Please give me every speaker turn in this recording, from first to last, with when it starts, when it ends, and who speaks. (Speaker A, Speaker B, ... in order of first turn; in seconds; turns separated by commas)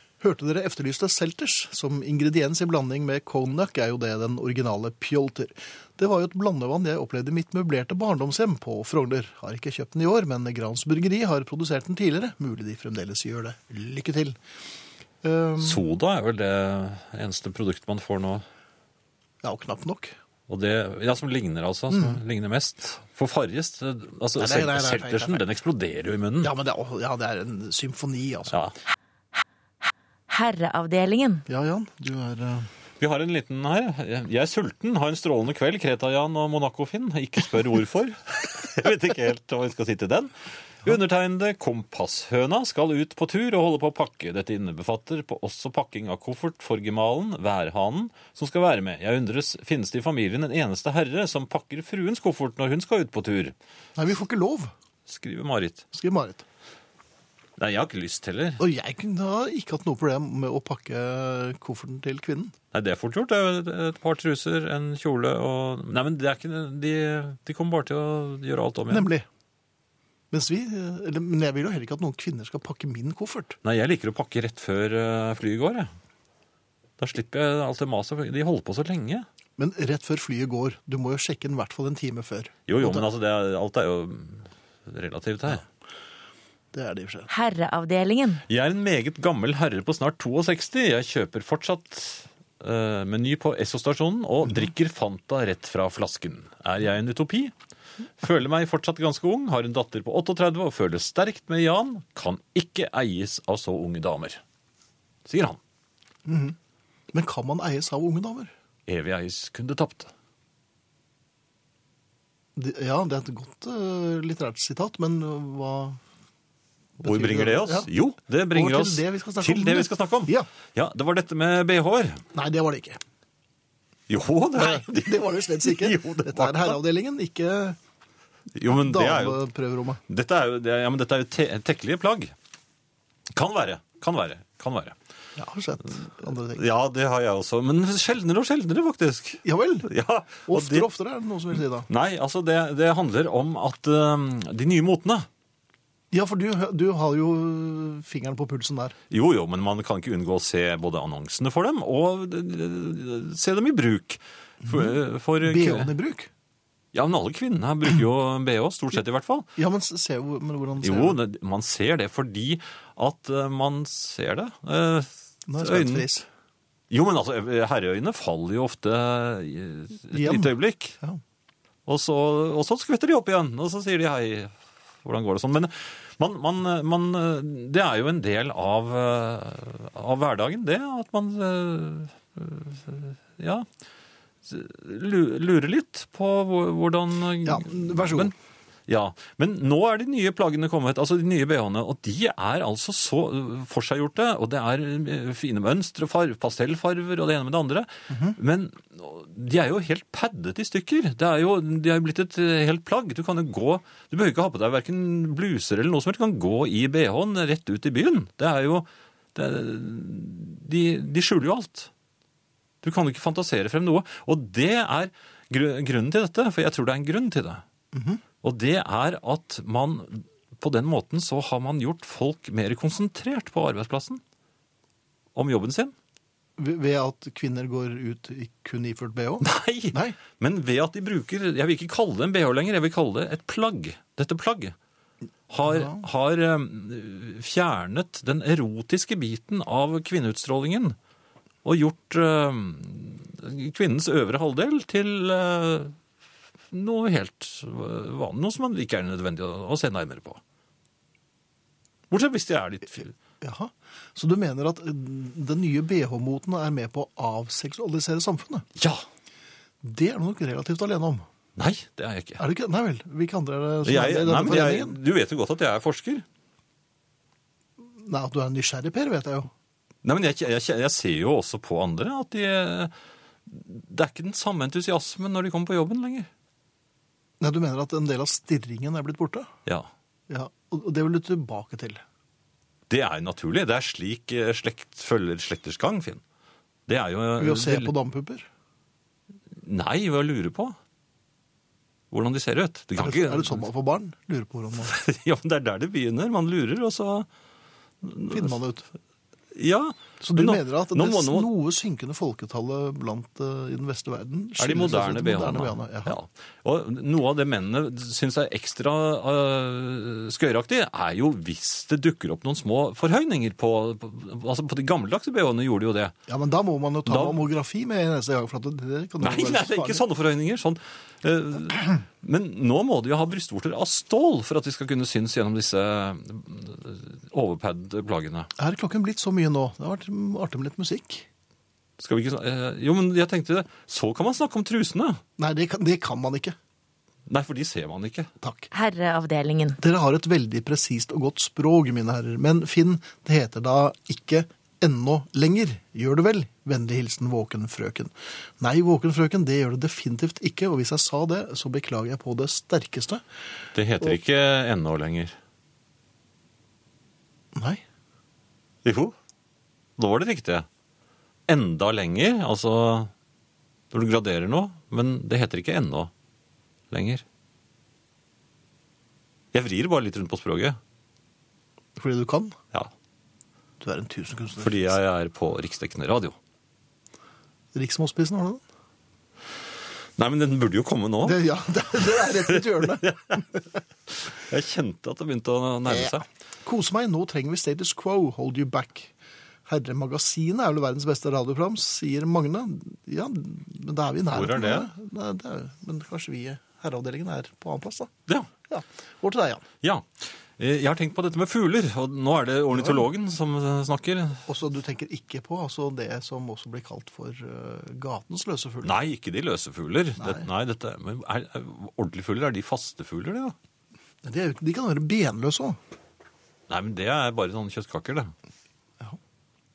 Speaker A: 0.2-14.4, Speaker A: 15.2-15.8, Speaker B: 15.6-18.4, Speaker A: 19.4-20.1, Speaker B: 20.5-26.5, Speaker A: 21.9-22.2, Speaker A: 24.4-25.4, Speaker A: 26.4-28.6, Speaker C: 30.3-31.4, Speaker A: 31.5-32.7, Speaker B: 33.0-40.3, Speaker B: 40.8-53.5, Speaker A: 54.0-54.7, Speaker B: 55.0-55.8, Speaker A: 55.9-56.4, Speaker B: 57.6-58.6, Speaker A: 58.6-62.5, Speaker B: 62.7-69.1, Speaker A: 68.9-69.2, Speaker A: 70.3-73.6, Speaker B: 73.6-75.9, Speaker B: 77.0-79.2, Speaker A: 79.6-83.1, Speaker B: 82.7-85.7, Speaker A: 86.7-87.3, Speaker C: 87.3-88.4, Speaker B: 88.5-97.5, Speaker B: 98.2-104.4, Speaker B: 105.2-105.6, Speaker A: 106.2-106.5, Speaker A: 107.1-108.5, Speaker B: 108.9-110.1, Speaker A: 112.5-116.0, Speaker A: 117.0-117.9, Speaker B: 117.0-122.2, Speaker A: 118.5-120.5, Speaker A: 122.3-123.0, Speaker B: 124.1-126.8, Speaker A: 124.5-127.8, Speaker B: 128.5-129.4, Speaker A: 128.7-130.0, Speaker B: 130.1-132.3, Speaker B: 133.3-135.0, Speaker A: 135.4-136.6, Speaker B: 136.5-140.9, Speaker A: 139.4-139.9, Speaker A: 140.4-141.9, Speaker B: 141.5-145.3, Speaker A: 146.1-148.9, Speaker B: 149.1-155.9, Speaker A: 154.6-156.3, Speaker B: 156.9-159.5, Speaker A: 159.6-161.2, Speaker B: 160.8-166.1, Speaker A: 165.5-166.3, Speaker B: 166.9-170.9, Speaker A: 170.1-171.2, Speaker B: 171.8-183.7, Speaker B: 184.4-188.3, Speaker A: 187.4-188.3, Speaker B: 188.9-211.9, Speaker A: 198.1-198.4, Speaker B: 212.8-217.6, Speaker A: 217.9-218.2, Speaker B: 218.4-224.2, Speaker B: 225.3-225.9, Speaker A: 226.6-230.2, Speaker B: 229.4-234.8, Speaker B: 235.5-241.0, Speaker A: 235.7-236.0, Speaker B: 241.6-246.0, Speaker B: 246.7-250.4, Speaker B: 252.1-253.1, Speaker A: 253.4-258.7, Speaker B: 258.8-259.0, Speaker A: 259.8-261.2, Speaker B: 261.6-262.4, Speaker A: 262.4-265.0, Speaker B: 263.8-266.2, Speaker A: 268.0-269.5, Speaker B: 270.0-272.9, Speaker B: 273.4-276.3, Speaker A: 277.4-279.5, Speaker A: 280.3-282.0, Speaker B: 282.9-286.2, Speaker B: 286.9-287.9, Speaker A: 287.4-288.5, Speaker B: 289.5-290.8, Speaker B: 292.1-293.7, Speaker A: 293.0-294.9, Speaker B: 294.8-297.3, Speaker B: 298.0-298.6, Speaker A: 298.3-298.8, Speaker B: 299.5-301.5, Speaker A: 300.2-306.1, Speaker B: 304.6-316.1, Speaker A: 316.3-320.0, Speaker B: 317.1-317.4, Speaker B: 319.2-328.5, Speaker A: 328.6-331.2, Speaker B: 332.0-335.2, Speaker A: 335.4-336.6, Speaker B: 337.3-338.3, Speaker A: 338.4-338.7, Speaker C: 338.7-339.8, Speaker A: 339.8-353.2, Speaker B: 353.7-355.4, Speaker A: 357.5-357.8, Speaker B: 358.8-359.1, Speaker B: 360.0-360.7, Speaker B: 361.5-363.1, Speaker B: 363.9-366.1, Speaker B: 366.9-367.2, Speaker B: 369.5-370.8, Speaker A: 372.0-372.6, Speaker A: 373.8-374.9, Speaker B: 374.6-376.4, Speaker A: 377.7-378.6, Speaker B: 380.2-381.4, Speaker A: 381.2-383.6, Speaker B: 382.5-383.2, Speaker B: 384.1-386.2, Speaker A: 385.9-389.1, Speaker A: 389.7-398.1, Speaker B: 394.3-394.9, Speaker A: 398.7-399.6, Speaker B: 399.8-404.4, Speaker A: 404.5-408.9, Speaker B: 408.8-413.6, Speaker A: 410.2-410.5, Speaker A: 414.2-415.8, Speaker B: 416.7-418.3